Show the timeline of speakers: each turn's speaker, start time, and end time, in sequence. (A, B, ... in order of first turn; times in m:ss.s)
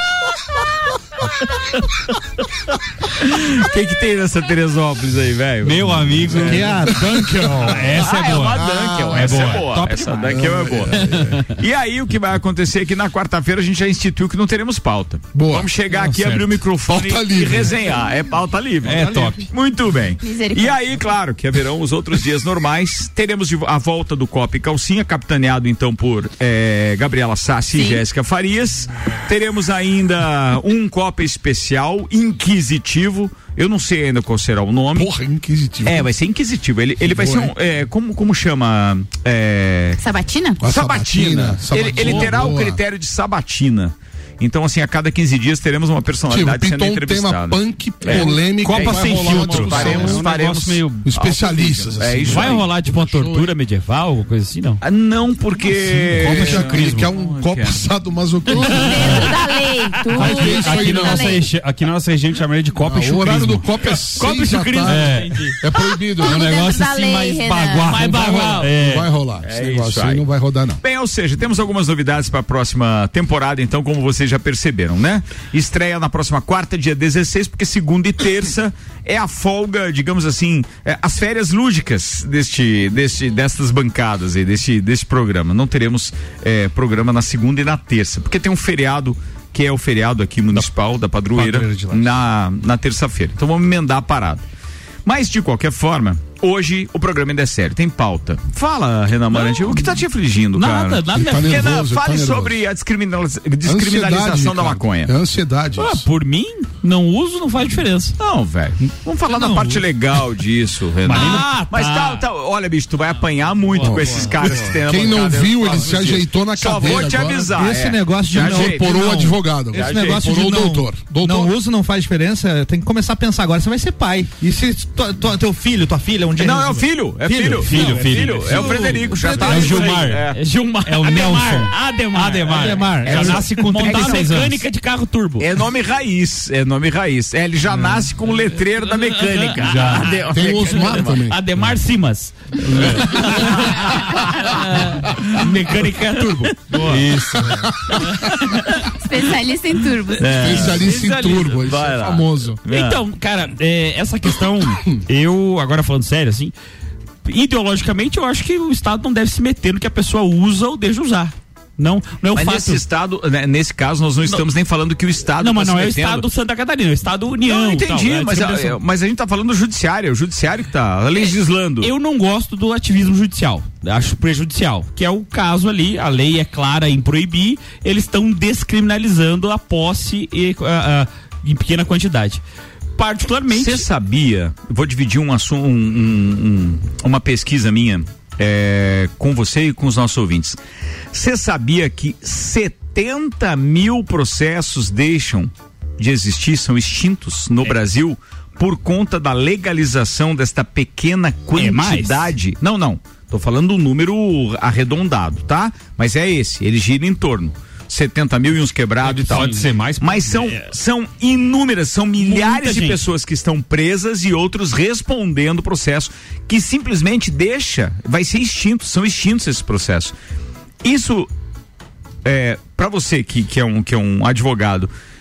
0:03.2-0:06.8 A
0:05.6-0:06.8 B
0:06.4-0:08.1 C
0:07.6-0:09.9 B
0:07.9-0:35.1 A
0:08.8-0:10.8 C
0:10.3-0:11.4 D
0:15.3-0:15.7 D
0:15.9-0:16.6 B
0:16.9-0:17.8 D
0:18.8-0:19.5 B
0:19.0-0:19.3 C
0:20.2-0:20.8 E
0:27.7-0:28.0 E
0:35.0-0:36.1 D
0:35.8-0:40.0 A
0:37.0-0:37.5 D
0:40.0-0:40.6 E
0:40.6-0:42.8 D
0:40.6-0:52.7 A
0:46.3-0:50.3 D
0:48.1-0:51.1 B
0:49.2-0:50.0 F
0:51.0-0:53.5 D
0:52.2-0:54.8 F
0:54.8-0:57.8 A
0:55.8-0:59.4 D
0:56.1-0:57.1 B
0:58.5-1:01.5 E
0:58.6-0:59.4 B
1:00.0-1:03.7 B
1:00.1-1:01.4 D
1:02.8-1:06.5 D
1:04.1-1:05.5 F
1:04.8-1:05.5 B
1:06.2-1:08.0 E
1:06.2-1:09.0 B
1:07.8-1:08.8 F
1:07.9-1:10.8 D
1:09.4-1:10.2 A
1:10.8-1:34.5 A
1:31.4-1:32.1 C
1:35.0-1:45.1 A
1:39.3-1:40.0 F
1:40.5-1:41.7 F
1:41.1-1:42.6 D
1:43.6-1:46.1 D
1:45.8-1:48.2 F
1:48.2-1:59.2 A
1:49.3-1:49.8 C
1:51.1-1:51.7 B
1:51.1-1:52.3 F
1:53.8-1:57.7 D
1:53.8-1:54.7 C
1:57.5-2:10.1 C
1:58.3-2:01.5 D
1:59.7-2:00.3 A
2:06.4-2:10.4 A
2:07.6-2:10.3 B
2:09.8-2:15.5 F
2:10.9-2:14.6 B
2:12.5-2:13.5 C
2:13.1-2:14.5 A
2:15.4-2:21.2 A
2:19.0-2:27.4 F
2:19.6-2:20.2 B
2:20.3-2:21.4 D
2:22.7-2:23.2 B
2:22.8-2:24.5 A
2:26.7-2:27.0 C
2:26.8-2:27.4 B
2:27.5-2:28.1 D
2:28.5-2:28.8 F
2:29.0-2:30.7 E
2:30.2-2:31.6 F
2:30.2-2:32.6 D
2:30.3-2:30.8 A
2:31.6-2:33.0 A
2:32.7-2:36.5 F
2:37.3-2:42.8 F
2:42.3-2:46.3 A
2:45.4-2:48.8 F
2:47.4-2:51.9 A
2:51.1-3:02.4 F
3:03.0-3:03.8 F
3:03.5-3:10.6 A
3:11.1-3:40.2 A
3:21.5-3:22.4 F
3:29.0-3:30.6 B
3:29.3-3:29.6 F
3:32.2-3:33.0 F
3:40.8-3:41.3 A
3:42.2-3:44.9 A